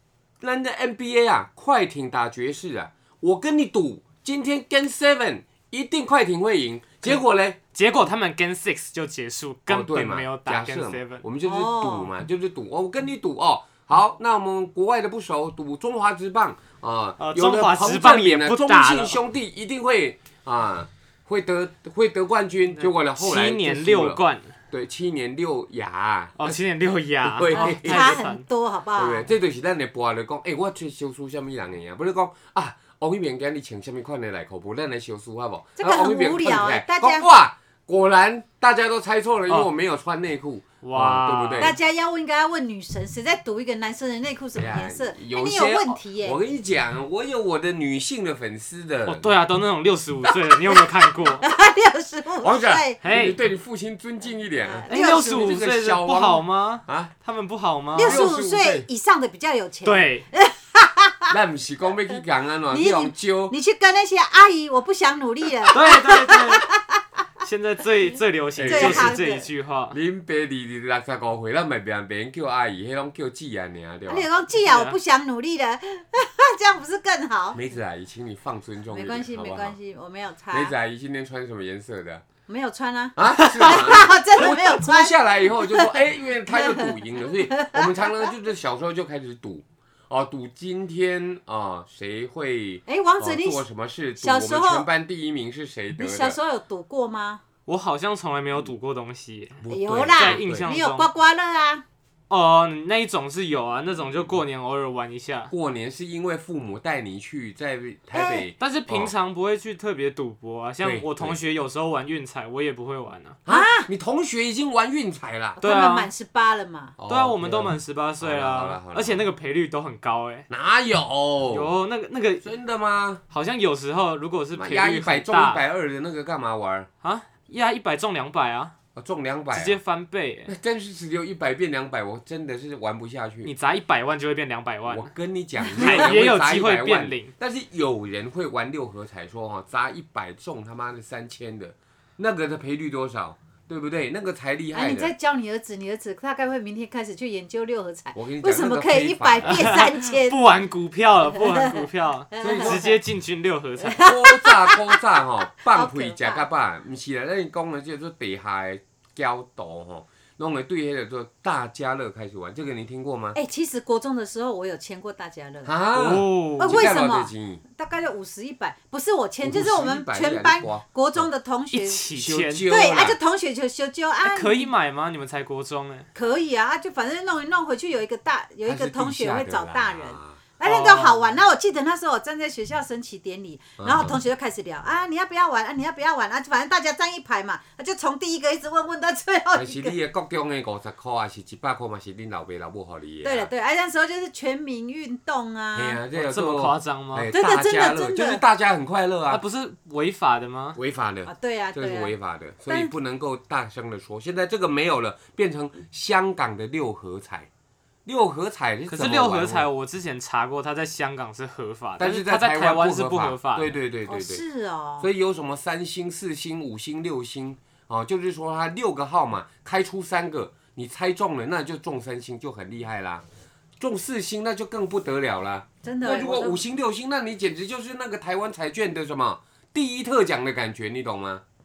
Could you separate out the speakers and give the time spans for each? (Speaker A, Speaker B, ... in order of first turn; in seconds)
Speaker A: 0.4-7.6, 9.7-26.6, 27.2-28.2, 28.9-41.8, 44.5-49.3, 52.4-57.1, 58.0-58.9, 61.3-63.5, 68.5-69.2, 69.9-74.3, 77.5-79.8, 80.5-82.2, 83.2-96.4, 99.6-100.7, 105.5-109.1, 110.8-111.4, 113.4-115.6, 117.0-119.3, 120.5-121.7, 122.4-123.2, 124.5-126.9, 128.9-129.8, 130.5-133.5, 134.8-145.1, 148.1-149.8, 152.4-153.0, 154.0-163.4, 165.6-167.6, 169.4-171.3, 172.1-173.2, 178.6-181.4, 183.8-184.2, 189.5-193.5, 195.7-199.4, 200.8-207.5, 208.0-209.7, 212.0-214.4, 215.0-223.2, 223.8-231.4
Speaker B: 7.7-11.2, 17.2-19.2, 22.8-24.5, 26.4-28.4, 40.8-41.7, 49.1-51.4, 53.0-53.4, 54.9-58.2, 59.8-60.2, 65.7-66.7, 67.4-70.0, 74.6-75.0, 97.7-99.6, 100.1-101.1, 102.3-105.5, 108.6-113.4, 115.6-116.1, 117.1-120.5, 121.5-122.5, 123.3-125.6, 127.0-128.7, 129.5-130.5, 133.4-135.1, 135.7-137.3, 149.4-154.0, 165.9-166.9, 171.7-172.6, 174.2-176.1, 196.2-197.3, 199.3-200.8, 208.9-213.7
Speaker C: 11.4-12.1, 27.5-29.3, 35.8-37.3, 41.6-46.4, 50.7-53.0, 54.7-55.6, 58.0-61.3, 62.7-67.0, 68.7-69.5, 74.1-77.6, 78.9-80.7, 82.5-88.3, 92.9-93.6, 94.2-94.9, 96.0-97.4, 99.7-101.8, 108.1-108.5, 113.5-113.9, 115.6-117.0, 144.7-150.4, 151.4-153.0, 153.8-156.4, 163.3-165.7, 166.6-172.0, 172.7-174.7, 176.1-190.0, 193.2-196.0, 197.3-198.4, 201.2-202.1, 202.7-202.9, 214.1-215.1, 225.8-226.6